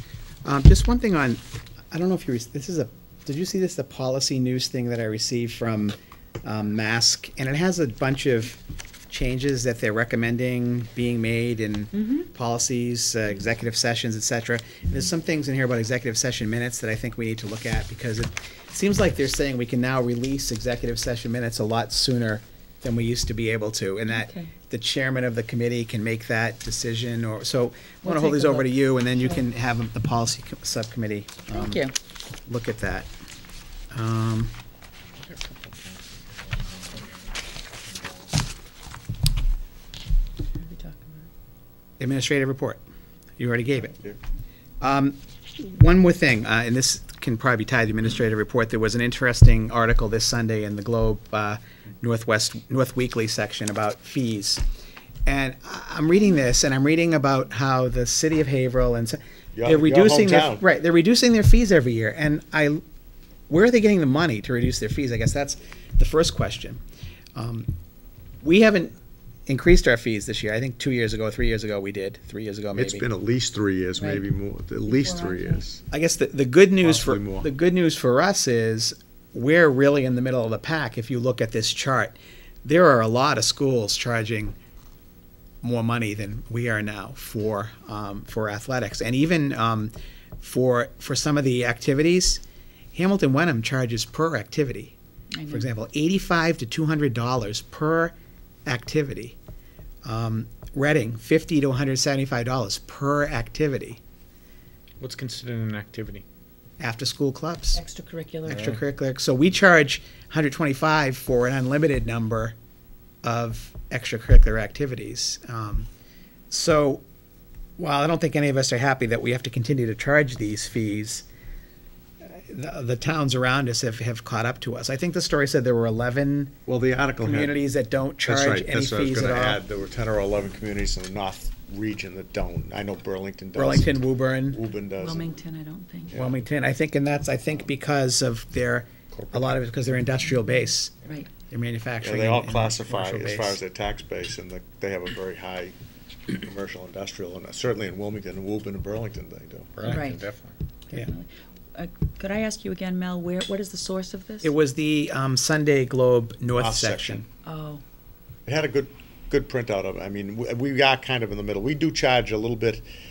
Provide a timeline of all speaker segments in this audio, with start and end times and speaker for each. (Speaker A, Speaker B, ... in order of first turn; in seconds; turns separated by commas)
Speaker A: 0.4-31.8, Speaker B: 24.1-24.5, Speaker B: 28.0-28.7, Speaker B: 31.5-31.9, Speaker A: 32.5-33.1, Speaker A: 33.9-34.5, Speaker B: 40.5-41.3, Speaker A: 42.0-42.8, Speaker A: 43.4-44.0, Speaker A: 44.8-54.6, Speaker A: 55.2-62.8, Speaker C: 59.5-60.6, Speaker A: 63.5-66.8, Speaker A: 67.3-67.7, Speaker A: 68.4-68.9, Speaker A: 69.5-73.1, Speaker C: 72.7-75.8, Speaker B: 74.0-74.2, Speaker B: 74.9-75.6, Speaker A: 75.9-84.5, Speaker C: 76.8-77.5, Speaker A: 85.6-92.4, Speaker A: 92.9-95.0, Speaker B: 95.3-95.7, Speaker A: 95.5-98.1, Speaker A: 98.7-99.3, Speaker A: 100.0-104.0, Speaker D: 105.0-106.2, Speaker A: 106.8-107.8, Speaker B: 107.7-108.6, Speaker A: 108.4-112.5, Speaker A: 113.2-115.9, Speaker A: 116.5-117.0, Speaker A: 117.8-121.2, Speaker A: 122.2-126.6, Speaker C: 126.7-127.6, Speaker A: 127.2-129.6, Speaker C: 128.2-135.3, Speaker A: 133.5-134.6, Speaker B: 135.0-136.1, Speaker C: 136.1-136.4, Speaker A: 136.1-140.9, Speaker C: 139.1-139.5, Speaker A: 141.5-143.6, Speaker C: 142.0-145.7, Speaker C: 146.3-150.0, Speaker D: 149.8-150.5, Speaker B: 149.8-150.3, Speaker B: 150.9-154.5, Speaker A: 154.4-157.2, Speaker C: 156.6-157.2, Speaker B: 157.4-157.8, Speaker C: 158.4-162.8